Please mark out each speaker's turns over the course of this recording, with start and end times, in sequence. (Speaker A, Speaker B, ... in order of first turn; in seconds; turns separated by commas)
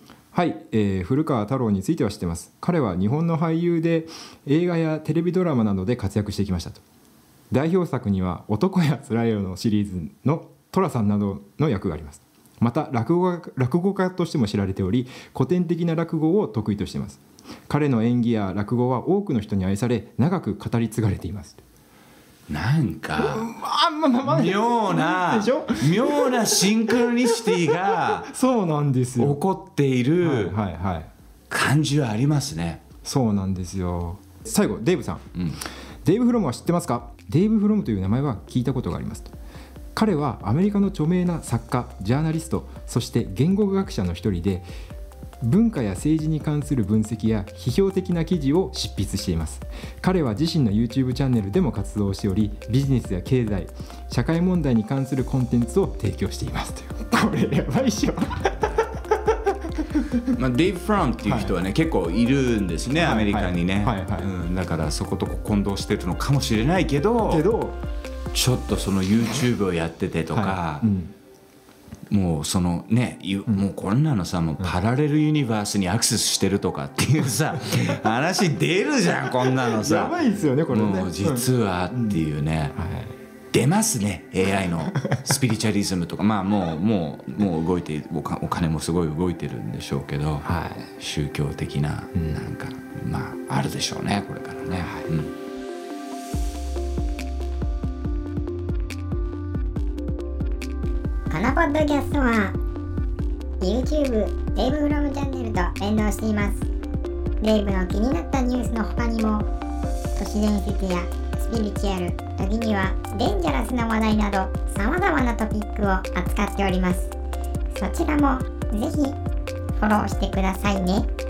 Speaker A: 0.3-6.8, Speaker A: 7.5-21.6, Speaker B: 22.5-23.5, Speaker A: 23.2-29.4, Speaker B: 24.2-28.3, Speaker B: 29.2-30.6, Speaker A: 30.2-31.1, Speaker B: 31.5-32.8, Speaker A: 33.0-35.3, Speaker B: 35.4-35.6, Speaker A: 36.0-39.3, Speaker A: 40.0-44.7, Speaker A: 45.4-59.3, Speaker A: 59.8-60.3, Speaker B: 60.3-67.5, Speaker A: 61.3-61.5, Speaker A: 63.0-64.3, Speaker A: 67.3-67.8, Speaker B: 68.3-70.9, Speaker A: 70.3-71.1, Speaker B: 72.1-80.2, Speaker A: 79.6-82.2, Speaker B: 80.7-82.8, Speaker A: 82.8-83.2, Speaker B: 83.5-95.3, Speaker A: 90.4-90.9, Speaker A: 92.1-92.4, Speaker A: 94.8-95.1, Speaker C: 101.3-102.6, Speaker C: 103.6-106.7, Speaker C: 107.4-109.5, Speaker C: 110.2-117.1, Speaker C: 117.7-119.2, Speaker C: 119.8-121.1